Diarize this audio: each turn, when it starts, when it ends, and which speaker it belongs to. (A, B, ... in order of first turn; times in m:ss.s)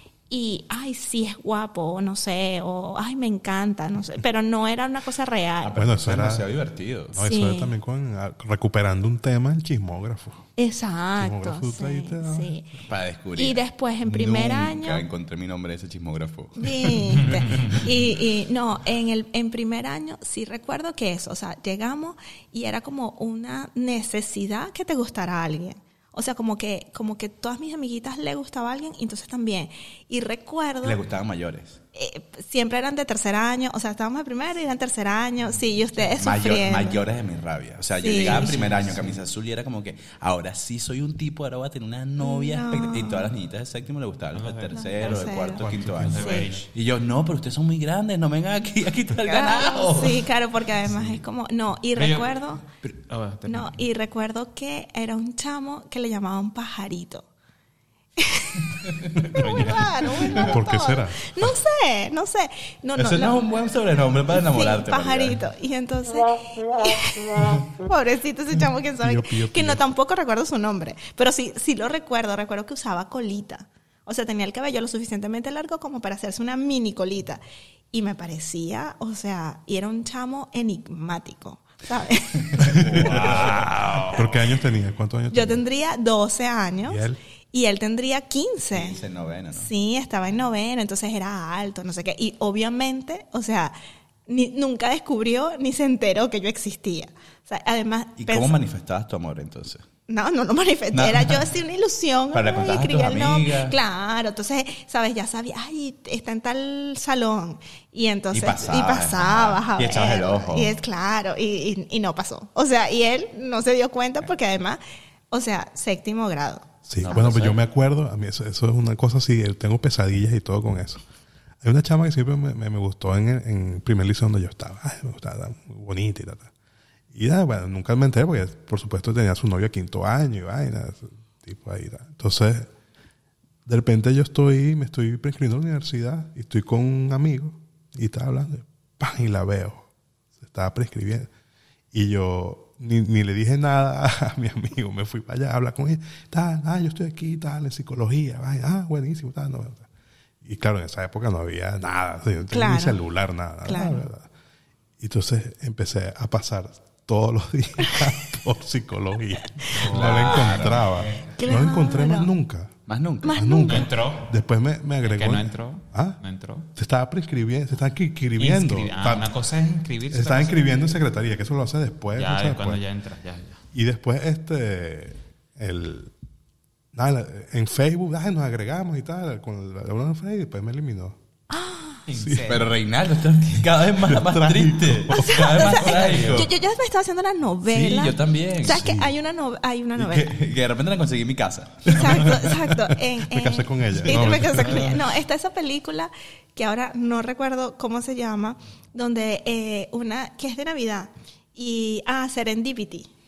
0:00.3-0:05.8 A
0:05.6-0:07.2 B
0:05.7-0:06.5 C
0:07.1-0:10.4 C
0:07.2-0:07.7 A
0:10.6-0:12.7 A
0:11.2-0:12.5 C
0:12.8-0:17.9 B
0:13.4-0:15.1 A
0:16.6-0:31.0 A
0:17.2-0:17.8 D
0:30.8-0:31.8 B
0:31.9-0:37.0 A
0:36.2-0:50.3 B
0:38.0-0:38.6 A
0:38.0-0:39.2 D
0:42.2-0:43.3 A
0:44.3-0:46.7 D
0:44.7-0:46.5 A
0:45.8-0:46.1 C
0:49.3-0:52.6 A
0:52.0-0:53.8 D
0:53.5-0:57.3 A
0:58.2-1:03.4 A
0:58.7-1:00.5 B
0:59.4-1:00.1 D
1:00.3-1:01.4 C
1:03.0-1:05.4 B
1:04.3-1:22.8 A
1:09.0-1:09.9 C
1:22.4-1:24.1 B
1:22.6-1:23.6 C
1:23.0-1:24.4 D
1:24.1-1:25.6 C
1:25.3-1:29.0 A
1:26.8-1:27.2 C
1:28.7-1:29.7 B
1:29.6-1:33.7 A
1:34.3-1:38.6 A
1:38.2-1:39.8 B
1:40.1-1:56.7 A
1:40.9-1:41.4 B
1:42.3-1:43.8 B
1:48.3-1:50.8 B
1:56.9-2:01.0 C
1:57.0-1:57.6 B
2:01.6-2:06.5 C
2:07.1-2:12.7 C
2:13.7-2:21.3 C
2:21.9-2:29.9 C
2:30.4-2:34.3 C
2:32.5-2:33.0 A
2:33.6-2:34.0 A
2:35.0-2:42.7 C
2:39.7-2:41.3 D
2:39.8-2:40.9 B
2:41.4-2:42.3 A
2:42.9-2:43.4 B
2:43.2-2:43.9 A
2:43.3-2:46.2 C
2:43.7-2:44.3 D
2:45.0-2:46.7 D
2:46.8-2:49.3 C
2:48.4-2:50.8 D
2:50.1-2:52.8 C
2:52.2-2:53.6 D
2:53.7-2:56.1 C
2:56.9-3:01.2 C
3:01.5-3:02.0 A
3:02.1-3:02.7 D
3:02.1-3:02.4 C
3:02.4-3:06.5 B
3:04.1-3:05.6 C
3:05.1-3:10.3 A
3:05.7-3:06.4 D
3:07.7-3:09.1 B
3:08.7-3:09.0 C
3:10.0-3:12.5 B
3:11.8-3:23.1 A
3:12.0-3:15.0 C
3:14.2-3:14.9 B
3:14.6-3:14.9 D